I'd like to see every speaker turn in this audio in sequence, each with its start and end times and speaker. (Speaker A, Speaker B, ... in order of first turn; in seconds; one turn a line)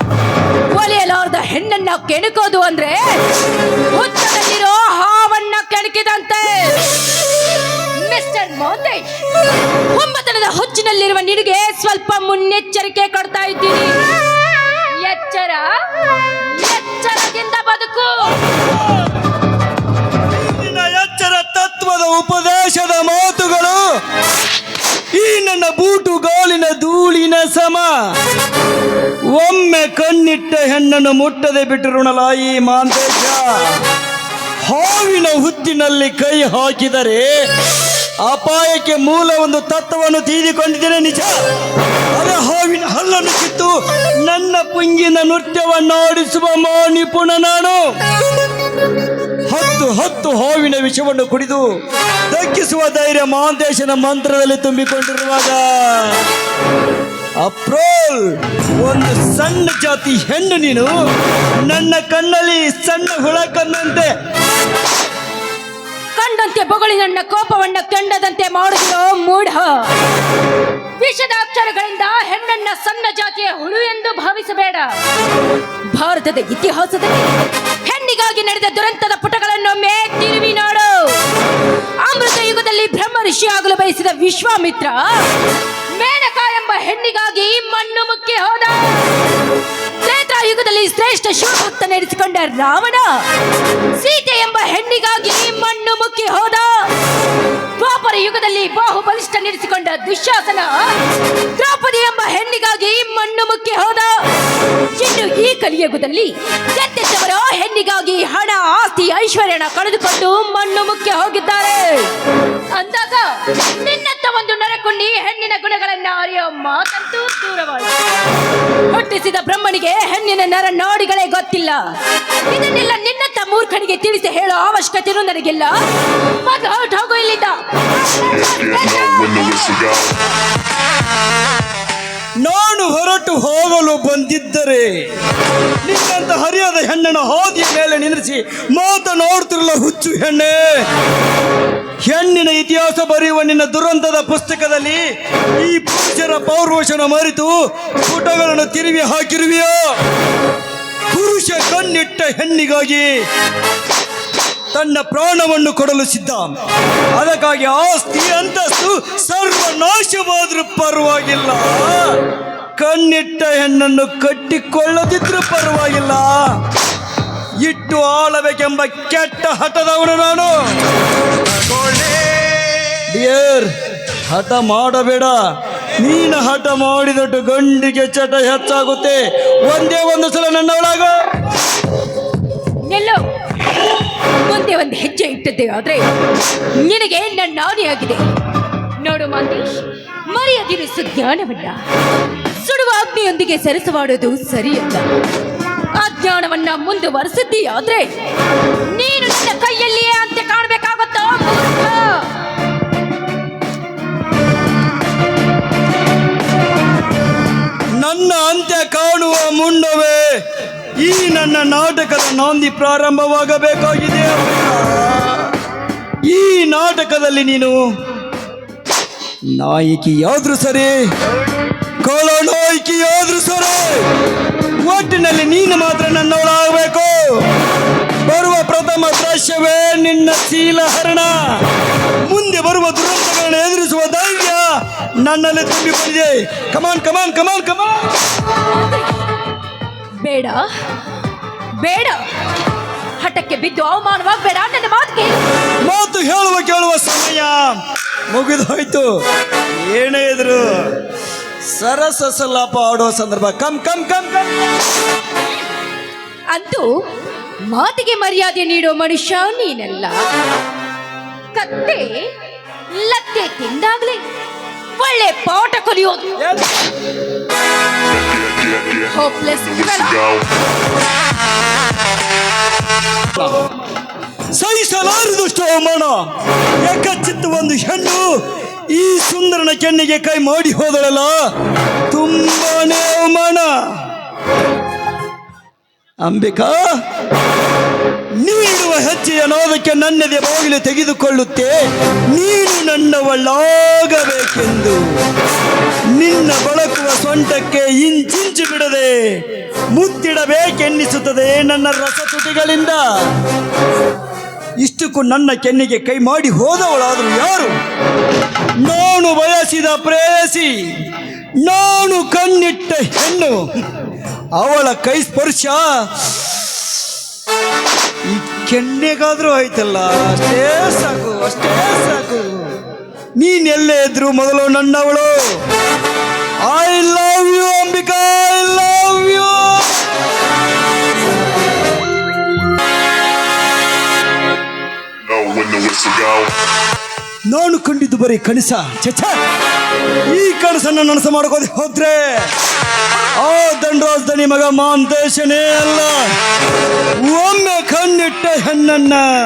Speaker A: 0.7-3.2
Speaker A: 3.9-6.8
Speaker A: 8.0-9.1
Speaker A: 9.9-14.0
Speaker A: 15.0-15.7
Speaker A: 16.4-18.4
Speaker B: 20.3-23.8
Speaker B: 25.1-27.9
Speaker B: 29.3-33.8
Speaker B: 34.6-37.3
Speaker B: 38.2-41.3
Speaker B: 42.1-47.8
Speaker B: 49.5-51.6
Speaker B: 52.3-56.2
Speaker B: 57.4-60.9
Speaker B: 61.6-64.1
Speaker A: 66.2-69.9
Speaker A: 71.0-74.9
Speaker A: 75.9-77.3
Speaker A: 77.8-81.2
Speaker A: 82.0-85.2
Speaker A: 86.0-89.0
Speaker A: 90.0-93.2
Speaker A: 94.0-96.9
Speaker A: 97.8-100.9
Speaker A: 101.6-104.2
Speaker A: 105.0-112.1
Speaker A: 112.7-118.0
Speaker A: 118.9-121.8
Speaker A: 122.5-125.7
Speaker A: 126.4-127.6
Speaker C: 128.3-130.2
Speaker B: 132.4-134.9
Speaker B: 135.8-140.9
Speaker B: 142.1-145.0
Speaker B: 145.6-149.8
Speaker B: 151.1-153.1
Speaker B: 154.7-156.5
Speaker B: 157.2-162.2
Speaker B: 162.8-166.6
Speaker B: 167.6-170.5
Speaker B: 171.5-172.3
Speaker B: 173.1-173.7
Speaker B: 174.3-175.3
Speaker B: 176.0-181.2
Speaker A: 182.9-183.2
Speaker A: 184.4-186.0
Speaker A: 186.8-188.2
Speaker A: 189.0-191.8
Speaker A: 192.6-195.1
Speaker A: 196.0-198.1
Speaker A: 198.9-202.3
Speaker B: 208.0-210.2
Speaker B: 211.0-215.5
Speaker B: 216.3-217.8
Speaker B: 219.5-220.9
Speaker B: 222.0-224.1
Speaker B: 224.8-227.4
Speaker B: 228.2-231.6
Speaker B: 232.3-234.7
Speaker B: 235.2-238.0
Speaker A: 238.7-239.1
Speaker A: 240.2-240.7
Speaker A: 241.8-242.2
Speaker A: 243.2-245.4
Speaker B: 245.8-247.8
Speaker B: 248.3-249.1
Speaker B: 249.7-250.9
Speaker B: 251.7-254.5
Speaker A: 256.5-256.9
Speaker A: 257.7-260.2
Speaker A: 261.6-262.3
Speaker A: 262.9-264.2
Speaker A: 265.0-266.4
Speaker B: 266.4-266.7
Speaker C: 268.1-270.5
Speaker A: 269.1-270.2
Speaker B: 274.6-276.2
Speaker B: 276.8-278.3
Speaker B: 278.9-281.4
Speaker B: 282.1-283.7
Speaker B: 286.2-286.9
Speaker B: 288.4-291.8
Speaker B: 292.3-295.0
Speaker B: 296.2-299.4
Speaker B: 299.9-303.0
Speaker B: 304.8-307.8
Speaker B: 308.8-310.7
Speaker B: 311.6-313.6
Speaker B: 314.6-315.9
Speaker B: 318.3-322.7
Speaker B: 323.4-325.4
Speaker B: 326.7-330.0
Speaker C: 335.3-336.5
Speaker B: 337.5-339.4
Speaker B: 340.3-342.5
Speaker B: 343.4-346.2
Speaker B: 347.2-349.2